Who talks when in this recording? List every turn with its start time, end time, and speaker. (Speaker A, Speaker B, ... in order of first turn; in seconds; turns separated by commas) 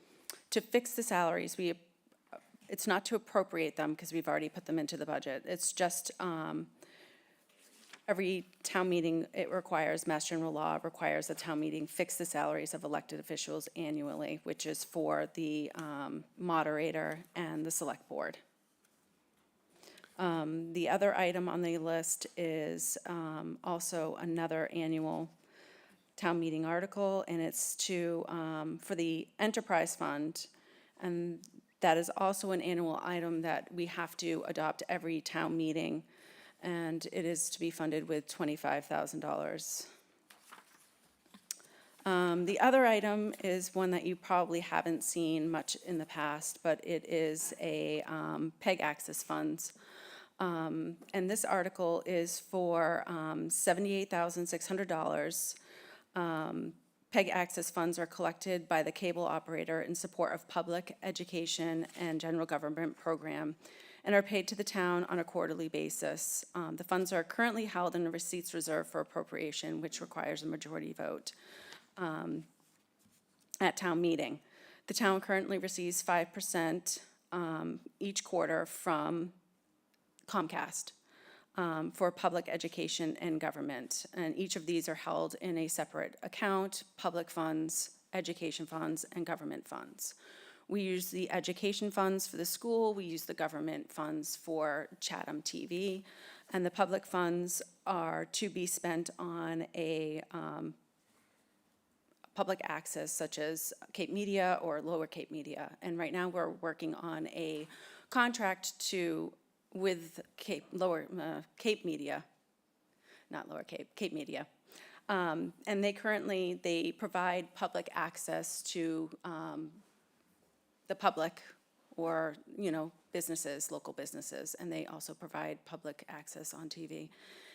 Speaker A: 0.5-1.8, Speaker A: 2.7-6.7, Speaker A: 8.1-18.4, Speaker A: 20.2-25.3, Speaker A: 26.2-36.1, Speaker A: 36.6-39.9, Speaker A: 42.0-49.7, Speaker A: 50.4-55.6, Speaker A: 56.1-71.3, Speaker A: 72.0-72.5, Speaker A: 73.6-79.3, Speaker A: 80.3-80.9, Speaker A: 81.5-90.2, Speaker A: 90.7-100.8, Speaker A: 102.3-112.2, Speaker A: 113.3-114.5, Speaker A: 115.1-119.8, Speaker A: 120.9-127.1